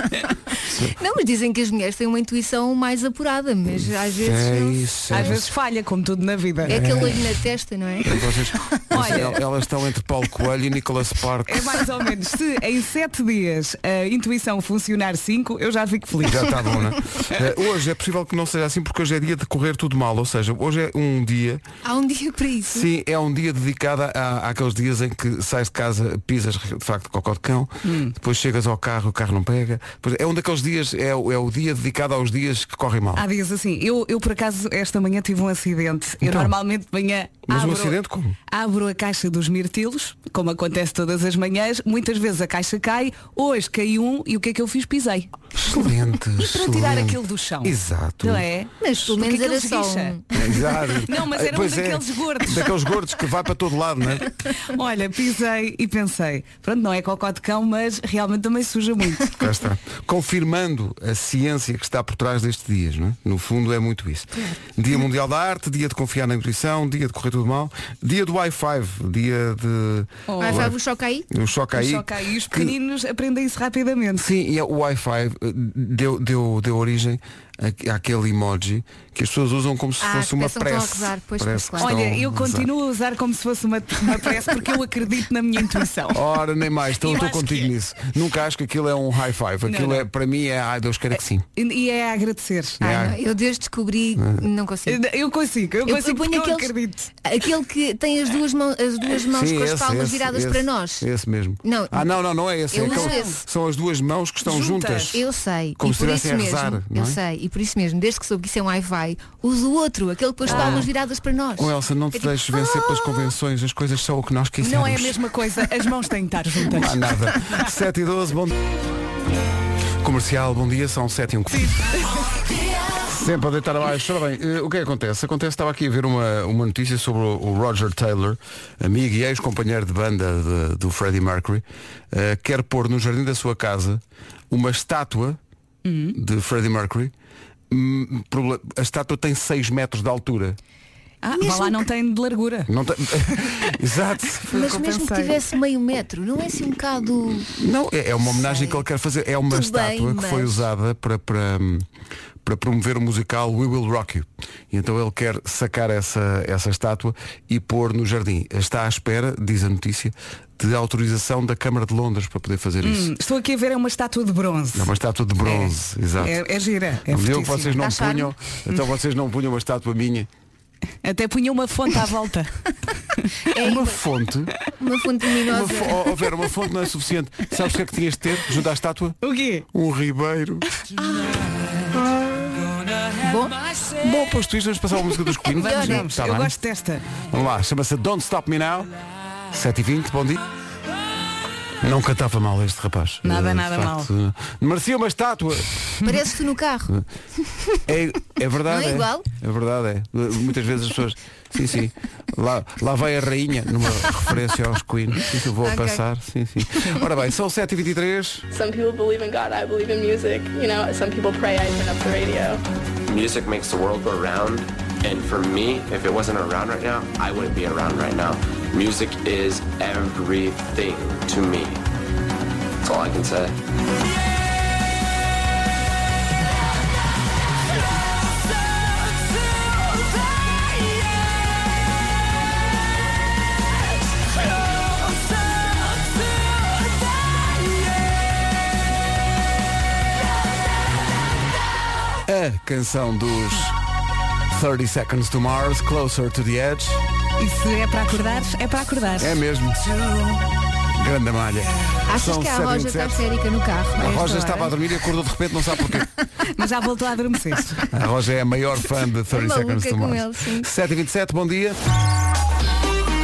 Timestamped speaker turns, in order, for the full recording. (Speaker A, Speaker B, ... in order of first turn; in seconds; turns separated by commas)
Speaker A: 0.6-0.9, Speaker B: 0.9-5.4, Speaker A: 4.2-5.5, Speaker C: 5.1-7.1, Speaker B: 6.7-8.2, Speaker A: 6.7-7.2, Speaker A: 8.0-11.8, Speaker C: 8.9-9.4, Speaker C: 11.5-16.6, Speaker A: 16.2-21.6, Speaker B: 21.8-22.9, Speaker A: 22.7-33.2, Speaker C: 27.8-28.1, Speaker C: 33.1-45.8, Speaker A: 36.2-36.5, Speaker A: 37.5-38.4, Speaker A: 45.6-48.5, Speaker C: 46.4-50.2, Speaker B: 48.8-50.4, Speaker A: 50.4-54.3, Speaker C: 51.0-52.7, Speaker C: 54.7-59.3, Speaker A: 59.4-70.8, Speaker C: 70.3-70.7, Speaker B: 70.4-71.3, Speaker A: 71.3-72.7, Speaker C: 71.7-74.3, Speaker A: 74.2-82.7, Speaker B: 80.0-81.9, Speaker C: 81.8-86.2, Speaker A: 86.1-91.5, Speaker C: 87.0-87.7, Speaker C: 89.7-90.1, Speaker C: 91.6-92.8, Speaker A: 92.8-93.2, Speaker B: 92.8-95.0, Speaker C: 94.9-97.1, Speaker B: 95.8-96.7, Speaker B: 97.2-101.0, Speaker A: 99.3-105.2, Speaker B: 101.6-102.1, Speaker B: 102.7-103.4, Speaker C: 102.8-103.4, Speaker C: 104.4-105.2, Speaker B: 105.1-113.3, Speaker A: 105.8-107.2, Speaker A: 110.5-110.9, Speaker C: 110.5-110.9, Speaker A: 111.6-115.2, Speaker C: 114.6-117.1, Speaker A: 116.7-118.5, Speaker A: 120.0-121.9, Speaker A: 123.0-135.4, Speaker C: 135.8-136.2, Speaker A: 136.1-137.1, Speaker A: 137.7-140.6, Speaker C: 141.2-142.7, Speaker B: 141.4-141.8, Speaker A: 142.7-144.5, Speaker C: 143.3-143.6, Speaker C: 144.5-145.4, Speaker B: 144.5-147.5, Speaker A: 147.6-151.9, Speaker B: 148.2-148.8, Speaker B: 149.5-150.7, Speaker A: 152.4-163.1, Speaker C: 162.8-167.8, Speaker A: 164.8-166.4, Speaker A: 167.1-170.3, Speaker B: 167.8-168.3, Speaker C: 171.0-172.6, Speaker B: 173.5-174.0, Speaker A: 173.6-174.5, Speaker B: 174.8-176.1, Speaker A: 175.5-179.2, Speaker C: 179.2-179.7, Speaker A: 179.7-180.7, Speaker C: 181.0-181.4, Speaker A: 181.9-182.6, Speaker B: 183.2-183.6, Speaker A: 183.9-186.6, Speaker B: 185.5-186.1, Speaker C: 185.6-187.1, Speaker A: 187.3-188.9, Speaker A: 189.5-190.4, Speaker A: 191.8-195.8, Speaker C: 193.2-194.1, Speaker B: 196.0-196.9, Speaker B: 197.4-197.8, Speaker A: 197.8-208.4, Speaker B: 198.7-199.2, Speaker B: 205.6-206.0, Speaker D: 208.5-212.6, Speaker E: 213.1-221.8, Speaker E: 222.8-223.6, Speaker A: 242.3-243.8, Speaker A: 244.5-247.0, Speaker C: 247.4-250.3, Speaker A: 249.2-249.8, Speaker A: 251.0-253.2, Speaker B: 252.1-254.7, Speaker A: 254.0-256.1, Speaker C: 254.0-254.7, Speaker C: 256.5-257.8, Speaker A: 257.9-261.8, Speaker B: 259.3-260.7